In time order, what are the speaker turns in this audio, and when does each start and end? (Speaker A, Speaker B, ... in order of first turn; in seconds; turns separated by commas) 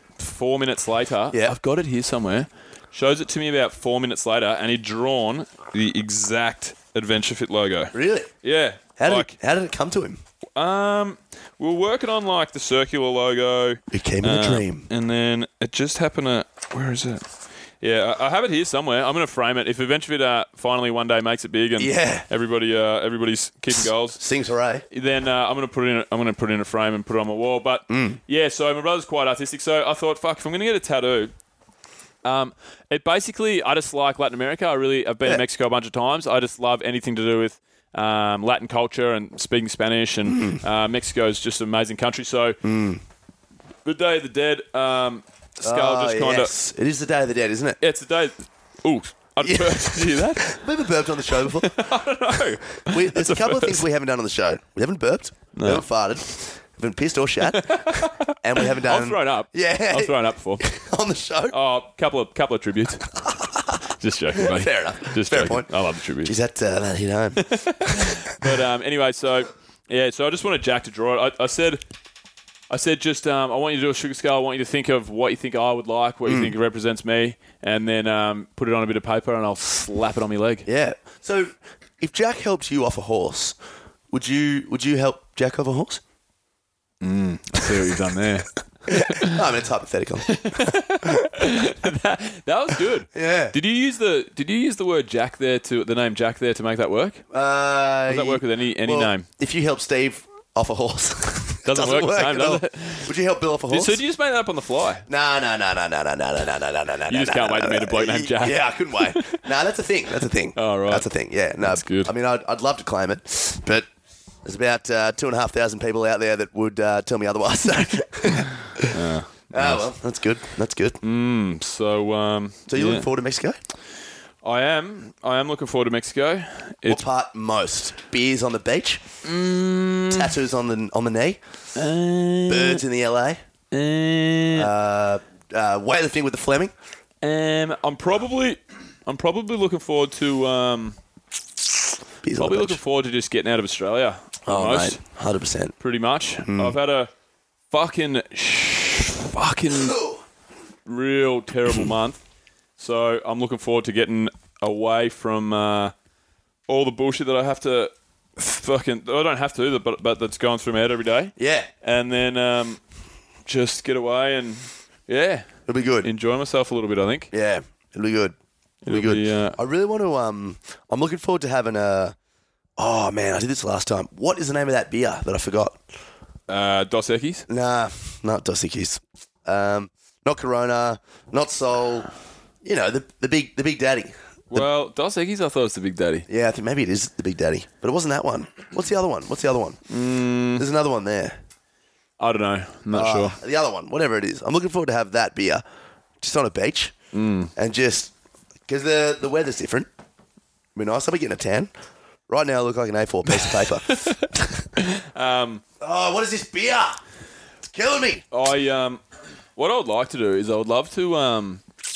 Speaker A: 0.2-9.3, Speaker B: 7.9-8.3, Speaker B: 9.0-10.2, Speaker A: 10.6-17.3, Speaker B: 13.9-14.9, Speaker A: 17.8-24.2, Speaker B: 21.8-22.3, Speaker B: 24.2-24.8, Speaker A: 24.9-31.3, Speaker B: 27.9-28.2, Speaker A: 32.2-42.6, Speaker B: 40.3-40.6, Speaker B: 42.6-43.0, Speaker A: 43.9-46.5, Speaker B: 45.6-47.8, Speaker A: 47.8-50.6, Speaker B: 49.4-51.7, Speaker A: 51.4-53.8, Speaker B: 52.8-61.6, Speaker A: 55.5-55.9, Speaker A: 57.4-60.6, Speaker A: 61.5-63.0, Speaker B: 63.2-63.8, Speaker A: 64.0-66.3, Speaker B: 64.3-65.7, Speaker B: 66.2-68.2, Speaker A: 67.4-71.8, Speaker A: 72.7-80.7, Speaker B: 76.3-76.5, Speaker B: 80.7-83.6, Speaker B: 84.1-86.0, Speaker A: 87.0-89.4, Speaker B: 88.9-91.3, Speaker A: 90.3-97.2, Speaker B: 93.1-93.5, Speaker B: 97.3-104.0, Speaker A: 98.1-99.3, Speaker A: 101.7-103.1, Speaker A: 103.7-105.0, Speaker B: 105.1-113.9, Speaker A: 107.1-109.4, Speaker A: 110.5-111.1, Speaker A: 111.6-112.1, Speaker B: 114.5-119.0, Speaker A: 118.9-119.8, Speaker B: 119.5-121.0, Speaker A: 121.0-123.1, Speaker B: 122.7-123.6, Speaker A: 124.4-127.0, Speaker B: 126.9-129.0, Speaker A: 129.2-130.3, Speaker B: 130.1-131.4, Speaker A: 131.8-132.8, Speaker B: 132.5-133.4, Speaker A: 133.7-134.7, Speaker B: 134.5-136.7, Speaker A: 137.2-141.0, Speaker B: 142.2-142.8, Speaker A: 142.4-145.0, Speaker B: 144.5-145.7, Speaker A: 145.8-147.1, Speaker B: 146.4-146.7, Speaker A: 147.7-150.0, Speaker B: 149.8-150.2, Speaker A: 150.8-152.2, Speaker A: 152.8-155.9, Speaker A: 156.7-162.8, Speaker B: 161.4-161.7, Speaker A: 163.5-165.5, Speaker B: 165.7-166.1, Speaker A: 166.0-167.3, Speaker B: 167.3-168.3, Speaker A: 168.8-169.6, Speaker B: 168.9-172.2, Speaker B: 172.8-175.8, Speaker A: 176.5-177.5, Speaker B: 177.5-182.1, Speaker B: 182.6-184.6, Speaker A: 184.5-186.3, Speaker B: 186.3-189.8, Speaker A: 189.9-190.7, Speaker B: 190.6-191.4, Speaker A: 192.2-193.4, Speaker B: 192.9-195.6, Speaker B: 196.2-196.9, Speaker A: 197.1-197.5, Speaker B: 197.6-198.1, Speaker B: 198.7-199.9, Speaker B: 200.8-201.7, Speaker B: 202.3-204.1, Speaker A: 203.3-204.2, Speaker A: 204.8-205.6, Speaker B: 205.8-207.0, Speaker B: 207.7-208.2, Speaker A: 208.3-209.0, Speaker A: 209.6-211.7